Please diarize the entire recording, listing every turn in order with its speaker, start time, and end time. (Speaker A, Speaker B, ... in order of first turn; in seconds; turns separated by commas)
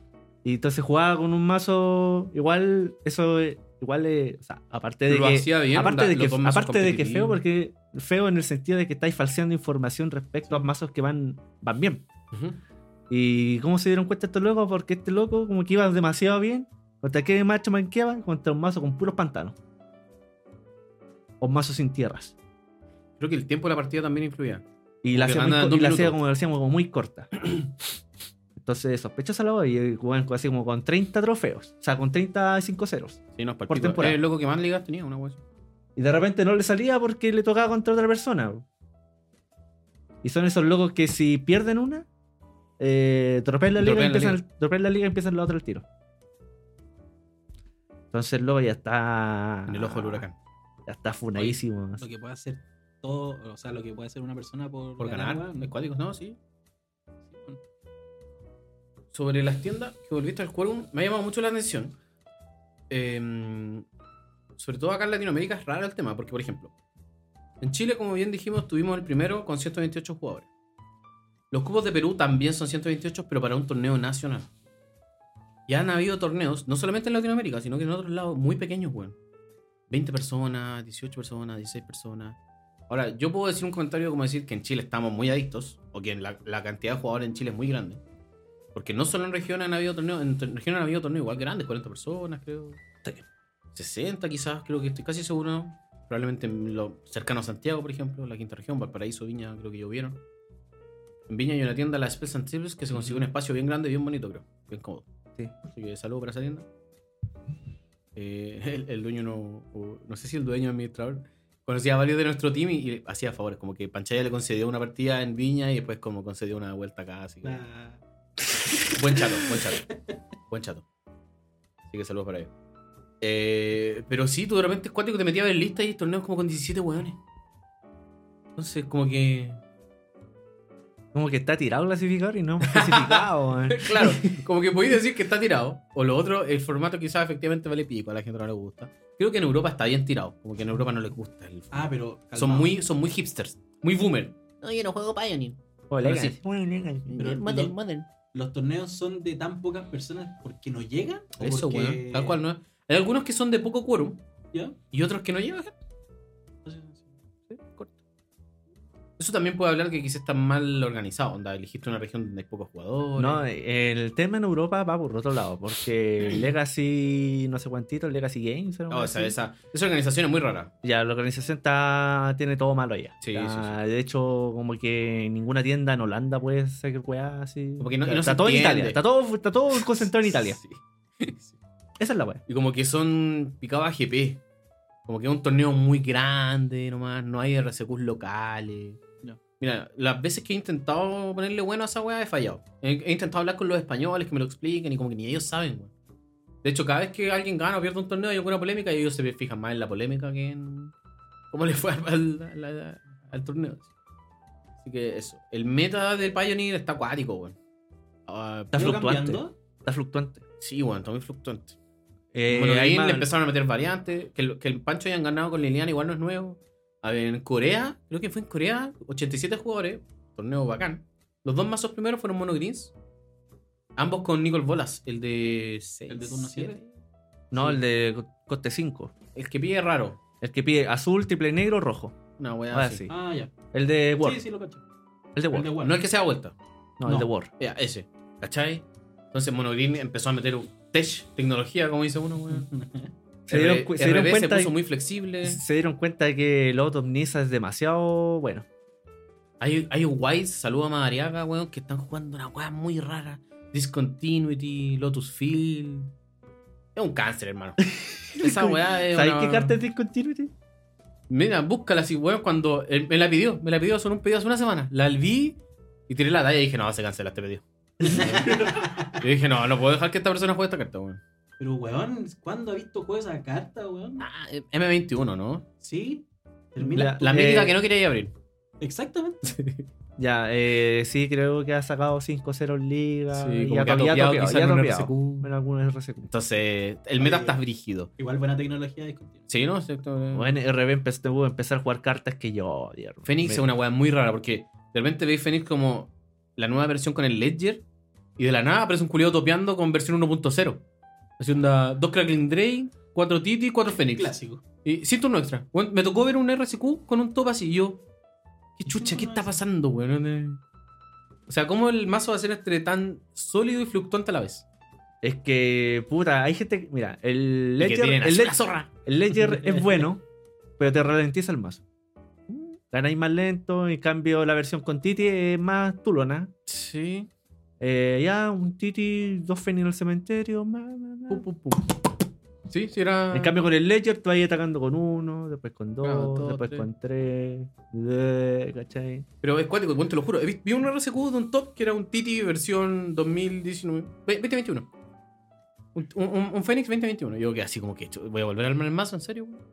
Speaker A: 0.4-12.0, Speaker B: 5.1-7.4, Speaker B: 12.3-12.6, Speaker A: 13.1-19.6, Speaker A: 21.4-22.4, Speaker B: 23.2-26.2, Speaker A: 25.0-27.5, Speaker A: 28.6-34.2, Speaker B: 33.4-35.4, Speaker A: 36.0-38.6, Speaker A: 40.2-42.1, Speaker A: 42.8-45.8, Speaker B: 43.8-44.4, Speaker A: 48.1-50.2, Speaker B: 49.7-50.4, Speaker A: 50.9-52.0, Speaker C: 51.3-55.7, Speaker B: 55.0-56.4, Speaker C: 57.3-57.6, Speaker B: 59.1-61.9, Speaker B: 62.9-63.9, Speaker B: 64.6-66.7, Speaker B: 67.6-70.5, Speaker B: 71.5-74.5, Speaker B: 75.7-79.2, Speaker B: 79.9-82.4, Speaker B: 82.9-88.0, Speaker B: 88.7-92.8, Speaker B: 93.7-100.2, Speaker B: 101.3-105.1, Speaker B: 105.7-106.7, Speaker B: 108.1-117.6, Speaker C: 117.4-118.0, Speaker B: 118.9-119.9, Speaker C: 119.2-120.1, Speaker B: 120.5-120.8, Speaker B: 121.9-122.5, Speaker B: 123.2-127.2, Speaker B: 128.6-129.6, Speaker A: 131.1-134.2, Speaker B: 132.7-146.4, Speaker C: 141.7-142.7, Speaker A: 145.9-147.2, Speaker B: 147.1-148.1, Speaker C: 147.2-147.7, Speaker C: 148.3-152.4, Speaker B: 151.4-154.2, Speaker B: 154.9-155.7, Speaker C: 156.6-157.1, Speaker B: 157.5-157.9, Speaker B: 159.2-163.4, Speaker A: 163.2-169.3, Speaker B: 168.9-170.7, Speaker A: 170.8-180.6, Speaker B: 173.2-173.8, Speaker B: 177.8-179.0, Speaker B: 179.7-181.6, Speaker A: 182.0-182.4, Speaker B: 182.5-184.4, Speaker B: 185.1-189.0, Speaker B: 189.6-195.9, Speaker B: 196.6-200.9, Speaker B: 201.5-203.9, Speaker B: 204.8-207.6, Speaker B: 208.3-208.8, Speaker A: 208.7-210.4, Speaker C: 208.7-209.5, Speaker B: 210.6-211.8, Speaker A: 212.3-213.3, Speaker B: 212.5-222.9, Speaker B: 223.9-226.9, Speaker C: 226.1-226.8, Speaker A: 227.5-229.1, Speaker B: 229.3-230.2, Speaker A: 230.4-232.1, Speaker B: 232.4-233.0, Speaker A: 232.7-233.1, Speaker C: 233.1-233.5, Speaker A: 233.7-234.4, Speaker C: 234.2-234.8, Speaker A: 235.3-235.7, Speaker C: 235.5-236.0, Speaker B: 235.8-236.5, Speaker A: 237.0-237.5, Speaker B: 237.6-242.7, Speaker C: 242.5-243.1, Speaker A: 243.5-244.8, Speaker B: 243.5-245.6, Speaker A: 245.4-248.7, Speaker B: 249.6-256.1, Speaker B: 256.9-257.8, Speaker A: 257.8-260.5, Speaker B: 258.4-259.8, Speaker B: 261.3-271.2, Speaker A: 268.0-268.6, Speaker C: 268.0-269.2, Speaker C: 271.6-274.2, Speaker B: 274.2-275.7, Speaker C: 275.8-276.2, Speaker C: 276.7-277.5, Speaker A: 276.8-277.8, Speaker B: 277.2-278.3, Speaker C: 278.8-279.6, Speaker B: 279.4-279.9, Speaker A: 280.2-286.3, Speaker B: 283.3-285.5, Speaker B: 286.3-288.1, Speaker C: 287.2-287.6, Speaker C: 288.2-289.5, Speaker B: 289.5-290.6, Speaker A: 290.3-293.7, Speaker B: 293.2-297.8, Speaker B: 298.4-300.8, Speaker B: 301.4-308.0, Speaker C: 304.0-304.6, Speaker B: 308.8-310.6, Speaker C: 308.9-309.6, Speaker B: 311.5-314.6, Speaker A: 315.2-320.2, Speaker B: 317.8-318.9, Speaker C: 319.5-320.0, Speaker A: 320.8-321.8, Speaker B: 322.5-322.7, Speaker A: 322.9-326.5, Speaker B: 326.6-327.3, Speaker A: 327.8-331.4, Speaker B: 331.3-332.0, Speaker B: 332.7-333.6, Speaker A: 333.3-339.2, Speaker B: 336.0-336.9, Speaker B: 339.4-344.9, Speaker B: 345.9-349.6